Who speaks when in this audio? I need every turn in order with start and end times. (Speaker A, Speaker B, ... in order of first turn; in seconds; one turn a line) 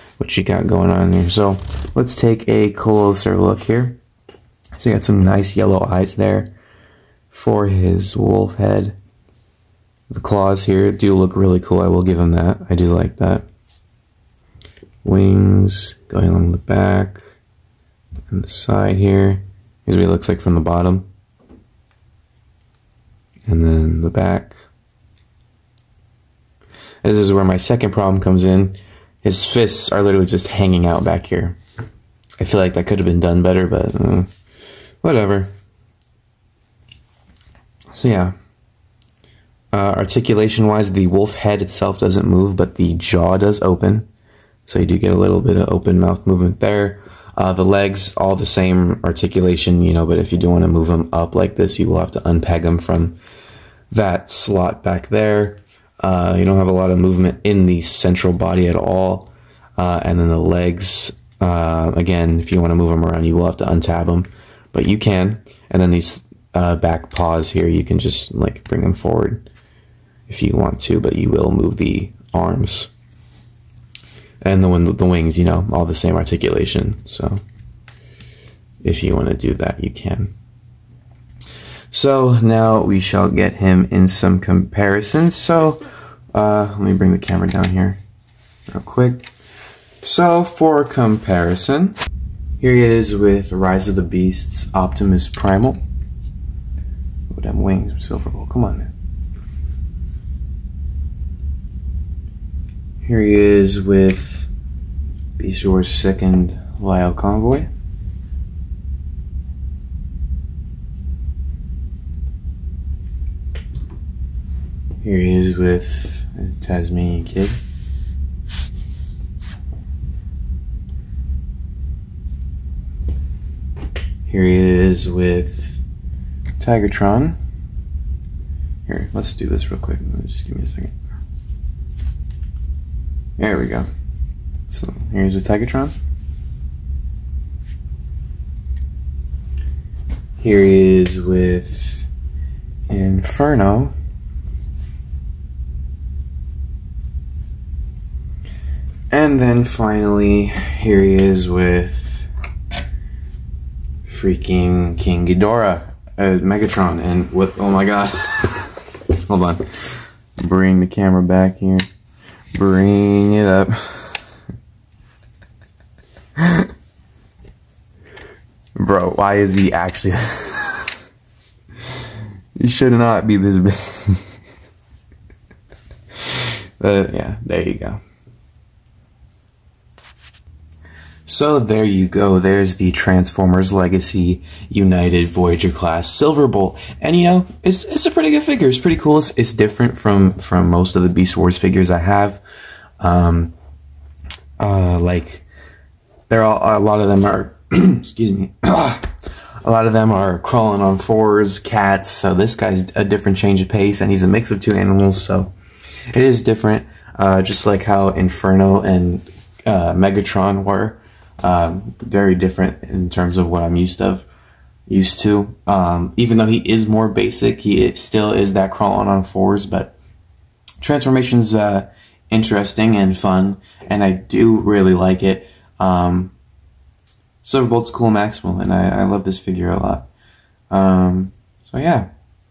Speaker A: 0.2-4.0
Speaker A: 4.8-6.5
Speaker A: 7.3-9.0
Speaker A: 10.1-13.5
Speaker A: 15.0-17.2
Speaker A: 18.3-21.1
Speaker A: 23.5-24.6
Speaker A: 27.0-31.6
Speaker A: 32.4-34.3
Speaker A: 35.0-35.5
Speaker A: 37.9-38.3
Speaker A: 39.7-44.1
Speaker A: 44.6-53.2
Speaker A: 53.9-69.5
Speaker A: 70.3-72.9
Speaker A: 74.4-77.4
Speaker A: 78.8-80.3
Speaker A: 81.9-85.8
Speaker A: 86.3-88.0
Speaker A: 88.7-89.3
Speaker A: 90.0-92.0
Speaker A: 92.6-95.8
Speaker A: 97.3-98.9
Speaker A: 103.0-104.5
Speaker A: 105.4-107.7
Speaker A: 115.0-117.6
Speaker A: 124.3-125.8
Speaker A: 126.6-127.4
Speaker A: 128.9-131.0
Speaker A: 133.4-133.9
Speaker A: 134.7-135.9
Speaker A: 140.4-142.1
Speaker A: 142.9-143.9
Speaker A: 149.1-152.3
Speaker A: 154.1-161.8
Speaker A: 162.5-164.2
Speaker A: 166.4-166.7
Speaker A: 168.8-170.9
Speaker A: 172.6-174.2
Speaker A: 176.3-178.0
Speaker A: 181.3-192.4
Speaker A: 193.0-193.5
Speaker A: 194.6-195.4
Speaker A: 196.3-199.1
Speaker A: 199.6-205.5
Speaker A: 206.1-214.3
Speaker A: 214.9-219.9
Speaker A: 220.8-226.3
Speaker A: 227.4-230.1
Speaker A: 230.7-232.1